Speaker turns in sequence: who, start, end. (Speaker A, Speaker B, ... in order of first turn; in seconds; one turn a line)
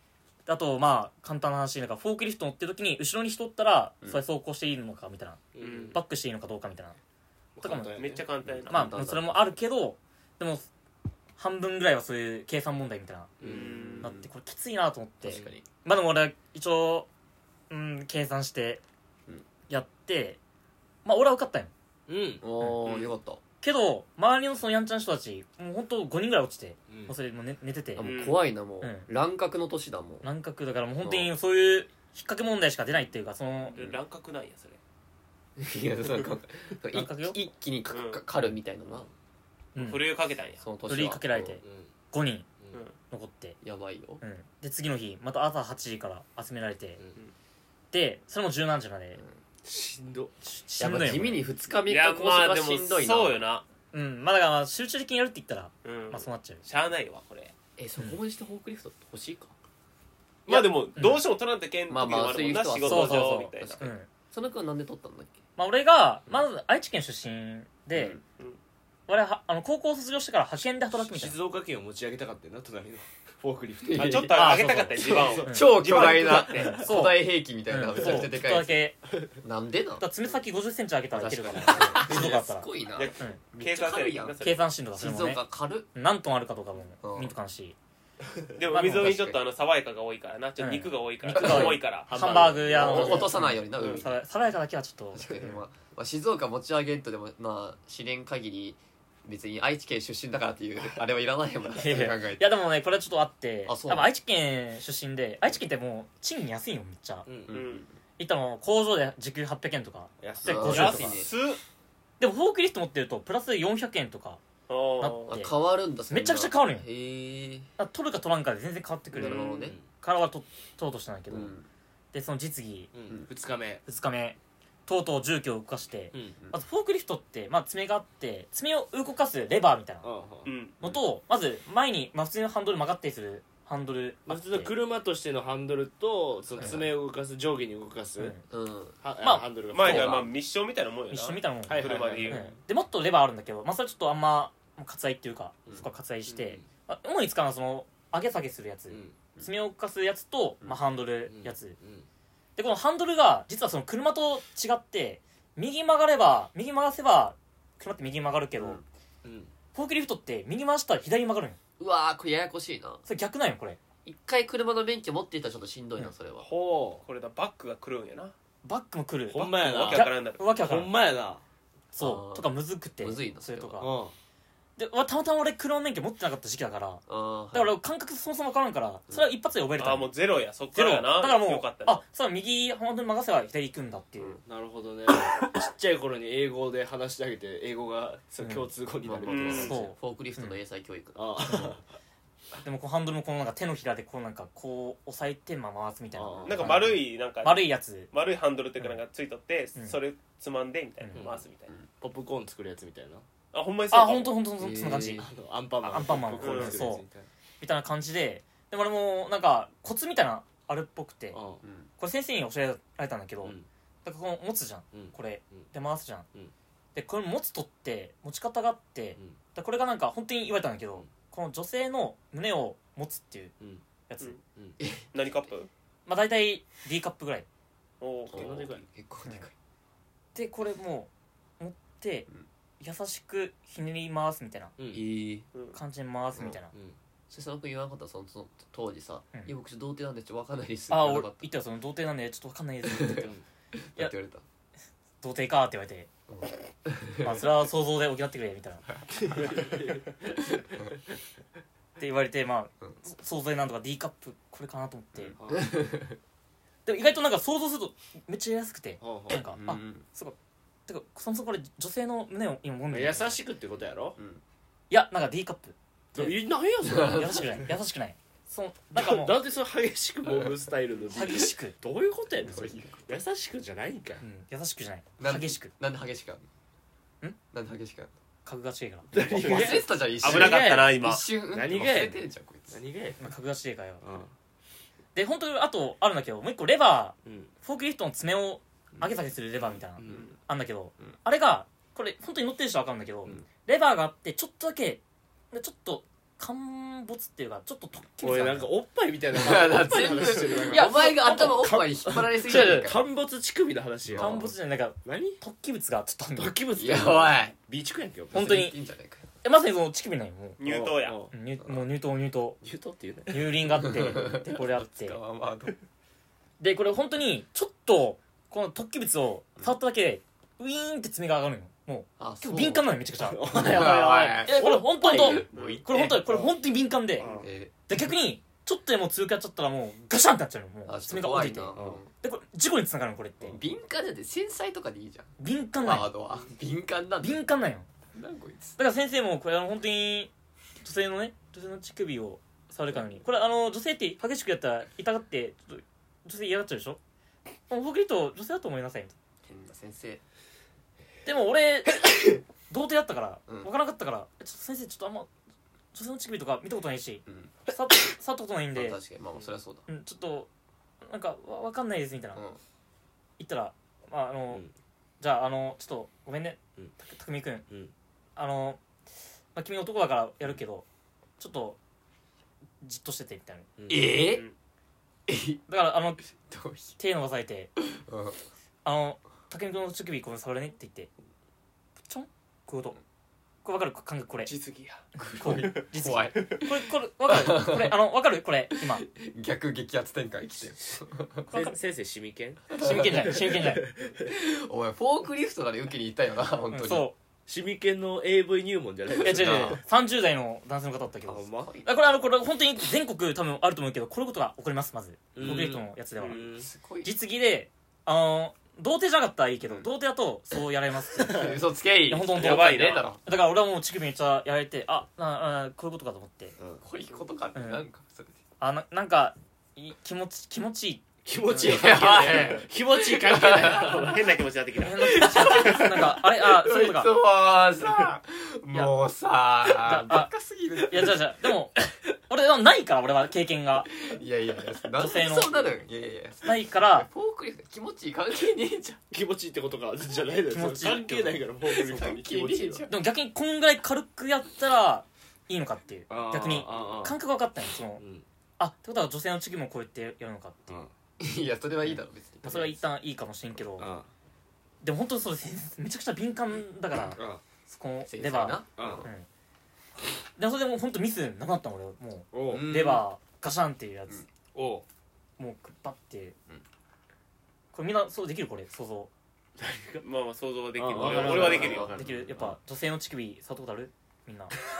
Speaker A: 0.5-7.0
Speaker B: 5.5-6.0
Speaker C: 5.6-6.0
Speaker B: 7.5-8.2
Speaker A: 7.6-8.0
Speaker C: 8.0-8.9
Speaker D: 8.4-9.4
Speaker A: 8.7-10.7
Speaker A: 11.4-13.4
Speaker B: 13.4-13.9
Speaker C: 13.4-14.1
Speaker D: 13.4-14.3
Speaker A: 14.0-17.1
Speaker D: 15.2-15.6
Speaker B: 15.3-15.6
Speaker A: 17.7-18.8
Speaker A: 19.7-20.4
Speaker A: 21.0-21.7
Speaker B: 22.1-22.4
Speaker D: 22.4-23.4
Speaker C: 22.8-23.1
Speaker A: 23.6-28.2
Speaker B: 26.9-27.1
Speaker D: 27.9-30.3
Speaker C: 28.0-28.4
Speaker A: 28.8-29.1
Speaker A: 30.2-33.8
Speaker D: 31.0-31.3
Speaker C: 33.7-34.8
Speaker D: 35.6-39.1
Speaker A: 36.9-37.4
Speaker C: 37.9-38.2
Speaker A: 39.7-40.0
Speaker C: 39.8-40.6
Speaker D: 40.6-41.6
Speaker A: 40.9-42.5
Speaker B: 41.6-41.9
Speaker A: 43.1-43.5
Speaker D: 43.6-44.2
Speaker A: 44.2-47.0
Speaker A: 47.9-49.2
Speaker B: 49.6-50.3
Speaker A: 50.4-51.4
Speaker D: 50.8-53.4
Speaker C: 51.9-53.6
Speaker A: 53.9-56.6
Speaker C: 55.8-57.5
Speaker D: 57.8-59.5
Speaker C: 60.5-63.8
Speaker A: 60.5-61.2
Speaker D: 61.9-65.4
Speaker A: 62.8-64.1
Speaker A: 65.5-68.2
Speaker D: 67.9-68.2
Speaker A: 69.1-71.4
Speaker B: 70.9-76.8
Speaker D: 73.8-78.8
Speaker C: 73.9-76.8
Speaker A: 74.3-75.8
Speaker A: 76.5-79.0
Speaker D: 79.3-80.0
Speaker A: 80.0-83.4
Speaker D: 81.1-84.4
Speaker C: 82.9-84.7
Speaker A: 84.4-87.8
Speaker D: 85.0-85.9
Speaker D: 87.0-87.3
Speaker C: 88.5-93.2
Speaker A: 88.7-89.2
Speaker D: 88.8-89.4
Speaker A: 90.6-95.3
Speaker D: 91.3-91.8
Speaker B: 92.1-93.4
Speaker D: 92.7-94.2
Speaker D: 95.1-102.5
Speaker A: 101.7-107.3
Speaker D: 103.7-104.1
Speaker B: 107.2-107.6
Speaker D: 107.5-107.9
Speaker C: 107.5-107.8
Speaker A: 108.2-111.2
Speaker B: 110.2-111.2
Speaker D: 110.4-111.3
Speaker C: 110.7-111.6
Speaker A: 112.2-114.4
Speaker C: 114.7-115.3
Speaker A: 115.0-115.5
Speaker D: 115.3-117.7
Speaker A: 116.1-116.9
Speaker A: 117.8-121.5
Speaker D: 119.1-119.8
Speaker B: 119.2-119.8
Speaker D: 121.3-121.7
Speaker A: 122.1-122.9
Speaker B: 122.9-123.8
Speaker A: 123.8-130.1
Speaker B: 130.0-131.0
Speaker C: 130.4-130.7
Speaker A: 130.8-134.7
Speaker B: 134.3-138.3
Speaker A: 136.6-136.9
Speaker A: 138.2-138.4
Speaker D: 138.5-138.9
Speaker B: 139.0-140.3
Speaker A: 139.2-140.2
Speaker C: 139.7-142.5
Speaker A: 141.1-151.8
Speaker B: 141.7-142.6
Speaker B: 148.9-149.2
Speaker B: 151.3-152.1
Speaker A: 152.6-158.8
Speaker B: 159.2-159.5
Speaker A: 159.7-161.6
Speaker D: 161.8-163.0
Speaker A: 163.1-163.8
Speaker D: 164.0-166.5
Speaker B: 166.4-167.0
Speaker C: 167.1-168.3
Speaker A: 168.6-170.9
Speaker B: 169.3-171.4
Speaker C: 169.4-170.4
Speaker A: 171.9-173.9
Speaker D: 172.0-173.8
Speaker B: 173.8-174.1
Speaker A: 174.8-177.0
Speaker D: 177.1-177.8
Speaker A: 177.5-180.1
Speaker C: 179.8-182.0
Speaker A: 180.7-184.4
Speaker B: 184.4-189.8
Speaker A: 188.4-188.7
Speaker D: 189.0-191.7
Speaker C: 189.2-189.8
Speaker A: 189.5-190.6
Speaker B: 191.1-191.8
Speaker A: 192.6-198.1
Speaker B: 196.1-196.8
Speaker C: 196.4-201.7
Speaker A: 201.0-201.2
Speaker B: 201.1-201.4
Speaker B: 202.0-203.2
Speaker C: 203.5-204.3
Speaker A: 203.9-205.2
Speaker D: 204.6-205.3
Speaker B: 205.1-207.3
Speaker A: 205.8-207.0
Speaker C: 206.4-206.9
Speaker A: 207.6-211.4
Speaker B: 211.3-211.6
Speaker D: 211.6-211.9
Speaker A: 212.0-216.3
Speaker B: 214.9-215.7
Speaker A: 216.9-223.5
Speaker A: 224.1-224.4
Speaker D: 224.8-225.1
Speaker C: 225.1-225.7
Speaker A: 226.1-227.5
Speaker C: 228.0-228.7
Speaker B: 228.3-228.8
Speaker D: 228.3-229.5
Speaker A: 230.3-232.3
Speaker A: 232.8-234.7
Speaker B: 234.8-235.1
Speaker D: 234.9-235.4
Speaker A: 235.7-236.7
Speaker D: 237.3-241.5
Speaker A: 240.9-243.3
Speaker D: 242.9-243.3
Speaker B: 243.2-243.4
Speaker D: 243.9-244.4
Speaker A: 245.2-246.1
Speaker D: 246.3-247.4
Speaker A: 247.2-248.8
Speaker B: 249.1-250.6
Speaker A: 252.0-255.3
Speaker B: 255.3-255.8
Speaker D: 255.5-256.1
Speaker A: 256.8-260.4
Speaker B: 259.0-259.4
Speaker D: 259.3-260.0
Speaker A: 260.9-263.4
Speaker B: 262.9-264.2
Speaker D: 264.2-264.4
Speaker A: 264.9-266.4
Speaker B: 266.1-267.6
Speaker D: 266.8-267.4
Speaker A: 266.9-269.3
Speaker B: 268.9-274.2
Speaker A: 271.1-271.8
Speaker D: 272.4-273.1
Speaker A: 274.2-275.7
Speaker D: 275.2-276.4
Speaker D: 277.5-278.1
Speaker A: 278.4-279.1
Speaker B: 279.1-283.3
Speaker D: 279.2-282.8
Speaker C: 279.3-281.2
Speaker A: 283.2-284.0
Speaker B: 284.0-284.3
Speaker A: 285.1-295.0
Speaker B: 287.2-287.5
Speaker B: 290.0-290.3
Speaker A: 295.5-298.7
Speaker B: 298.2-304.5
Speaker D: 299.3-303.1
Speaker A: 300.7-301.6
Speaker A: 302.4-302.9
Speaker D: 304.1-304.4
Speaker A: 304.2-306.5
Speaker B: 305.0-305.4
Speaker B: 306.4-308.6
Speaker D: 306.8-307.5
Speaker D: 308.3-309.3
Speaker A: 308.3-308.7
Speaker A: 309.4-310.6
Speaker C: 310.6-311.2
Speaker B: 310.6-311.3
Speaker A: 311.3-312.6
Speaker B: 312.6-314.0
Speaker A: 313.3-315.2
Speaker D: 313.8-315.8
Speaker A: 316.6-323.9
Speaker D: 322.2-322.9
Speaker B: 323.2-326.5
Speaker D: 323.5-326.3
Speaker A: 324.4-327.3
Speaker C: 325.5-325.8
Speaker B: 327.2-327.5
Speaker D: 327.2-327.7
Speaker A: 327.9-333.6
Speaker D: 330.9-332.1
Speaker B: 331.7-332.0
Speaker D: 333.5-337.4
Speaker A: 335.4-336.1
Speaker A: 337.2-337.9
Speaker D: 338.1-338.8
Speaker A: 338.8-340.3
Speaker A: 340.8-347.0
Speaker A: 347.7-349.1
Speaker D: 349.4-350.2
Speaker A: 351.2-355.3
Speaker A: 355.9-359.0
Speaker D: 357.2-357.5
Speaker D: 358.7-359.9
Speaker A: 359.9-360.5
Speaker A: 361.0-362.4
Speaker A: 363.4-364.6
Speaker A: 365.2-367.6
Speaker A: 368.4-368.8
Speaker A: 369.5-370.9
Speaker A: 371.4-371.8
Speaker A: 372.8-373.7
Speaker B: 373.8-374.2
Speaker D: 373.9-374.4
Speaker C: 374.2-374.5
Speaker D: 375.3-375.6
Speaker A: 375.7-376.2
Speaker D: 376.4-377.0
Speaker A: 377.0-377.7
Speaker D: 377.9-378.4
Speaker A: 378.8-381.1
Speaker A: 382.1-383.0
Speaker A: 383.6-384.5
Speaker C: 384.4-385.9
Speaker D: 385.2-387.9
Speaker A: 385.3-389.1
Speaker D: 388.9-391.5
Speaker A: 391.5-391.8
Speaker B: 391.5-394.3
Speaker D: 392.7-393.3
Speaker A: 392.7-393.8
Speaker D: 394.2-397.1
Speaker A: 396.7-397.1
Speaker B: 397.5-399.8
Speaker D: 399.2-399.8
Speaker A: 399.2-406.4
Speaker B: 401.2-401.7
Speaker D: 401.6-401.9
Speaker B: 405.3-406.7
Speaker C: 406.2-406.5
Speaker D: 406.6-407.1
Speaker A: 407.0-411.5
Speaker D: 411.1-413.2
Speaker B: 411.2-411.5
Speaker A: 412.1-416.6
Speaker C: 412.3-413.1
Speaker B: 416.6-416.8
Speaker D: 416.8-418.4
Speaker A: 417.5-417.8
Speaker A: 418.6-422.0
Speaker B: 421.2-424.2
Speaker D: 421.6-424.2
Speaker C: 423.5-425.8
Speaker A: 424.8-427.1
Speaker D: 425.1-431.2
Speaker A: 429.7-433.9
Speaker D: 434.0-439.0
Speaker A: 434.9-435.6
Speaker A: 436.4-437.1
Speaker B: 439.1-442.9
Speaker A: 440.5-441.4
Speaker D: 441.6-443.0
Speaker A: 442.9-448.0
Speaker B: 446.1-447.2
Speaker B: 448.0-448.2
Speaker A: 448.6-450.8
Speaker D: 451.2-452.8
Speaker A: 452.4-453.9
Speaker B: 453.8-454.1
Speaker A: 454.8-459.2
Speaker B: 457.1-457.4
Speaker D: 458.1-459.1
Speaker B: 458.8-459.1
Speaker A: 460.4-464.2
Speaker B: 462.3-462.7
Speaker D: 462.5-463.0
Speaker B: 464.5-464.8
Speaker A: 465.4-466.4
Speaker A: 467.7-469.1
Speaker B: 469.6-470.0
Speaker C: 470.0-471.9
Speaker B: 470.8-472.5
Speaker D: 471.0-472.0
Speaker A: 471.9-474.5